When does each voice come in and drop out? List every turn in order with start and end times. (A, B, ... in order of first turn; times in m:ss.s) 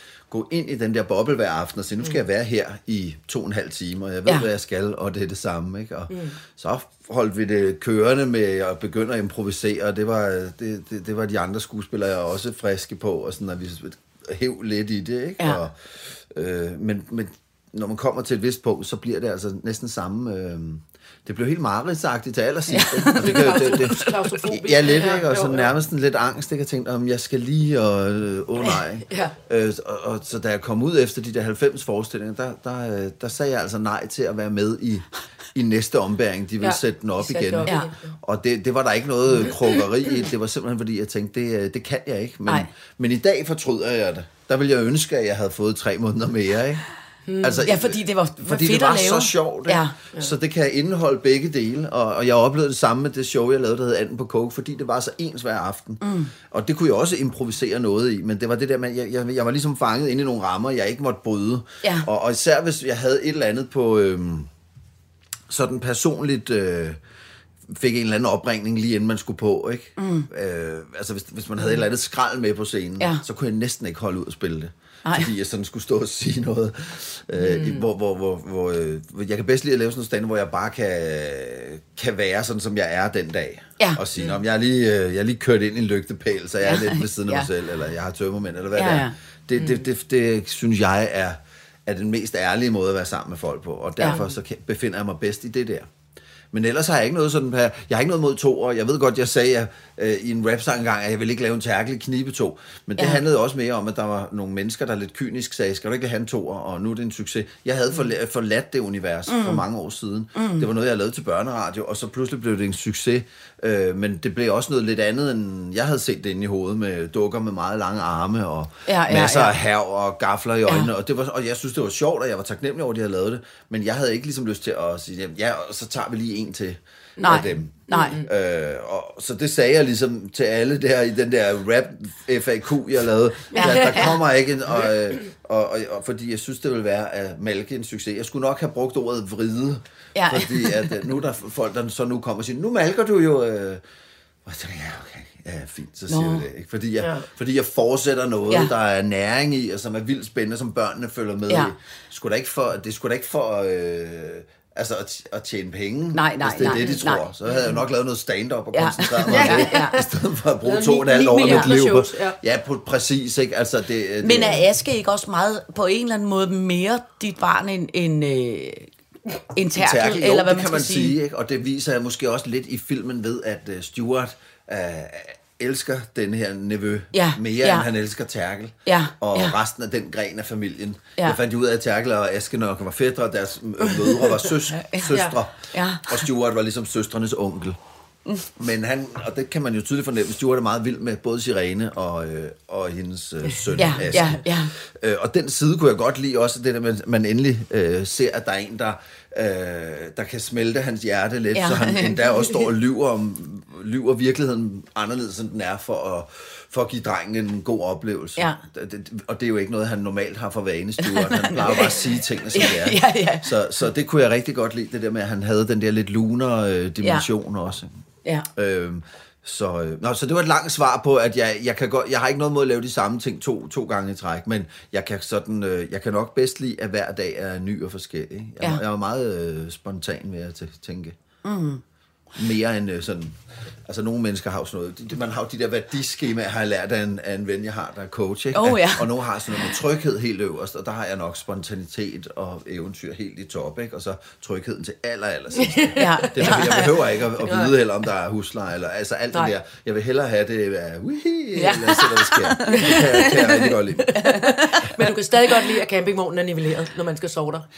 0:00.3-0:46.8 A
0:06.1-0:06.4 B
0:22.7-0:24.3 C
0:23.2-0:25.7 B
0:28.6-0:29.3 B
0:36.6-0:38.1 B
0:47.3-0:47.6 B
0:47.4-1:04.5 A
0:47.6-0:50.0 C
0:56.0-0:56.3 C
1:01.8-1:02.1 C
1:05.5-1:07.0 A
1:07.7-1:35.9 A
1:10.0-1:10.3 C
1:15.0-1:15.3 C
1:26.6-1:27.5 C
1:28.8-1:29.1 C
1:36.5-2:23.8 A
1:49.3-1:49.6 C
1:50.4-1:50.7 C
1:58.9-1:59.6 C
2:07.2-2:08.3 B
2:07.2-2:08.2 C
2:13.5-2:14.2 B
2:13.6-2:14.1 C
2:20.2-2:20.9 C
2:24.4-2:44.6 A
2:26.1-2:26.4 C
2:27.0-2:27.3 B
2:36.1-2:37.2 C
2:36.7-2:37.0 B
2:38.7-2:40.0 C
2:39.2-2:40.1 B
2:40.6-2:42.4 B
2:41.4-2:41.7 C
2:44.2-2:48.9 C
2:49.5-2:51.2 C
2:49.8-3:07.8 A
2:57.1-2:57.9 C
2:58.9-2:59.5 C
3:03.8-3:04.5 B
3:04.8-3:06.2 C
3:05.1-3:05.4 B
3:08.6-3:38.0 A
3:13.8-3:14.7 C
3:21.5-3:22.7 C
3:31.0-3:32.0 C
3:32.5-3:33.5 C
3:37.0-3:37.3 C
3:38.6-3:51.2 A
3:51.4-3:51.8 C
3:52.4-4:14.2 A
3:58.5-3:59.1 C
4:05.6-4:06.8 B
4:06.0-4:07.0 C
4:07.4-4:07.7 B
4:11.6-4:15.1 C
4:12.7-4:13.5 B
4:14.2-4:17.6 B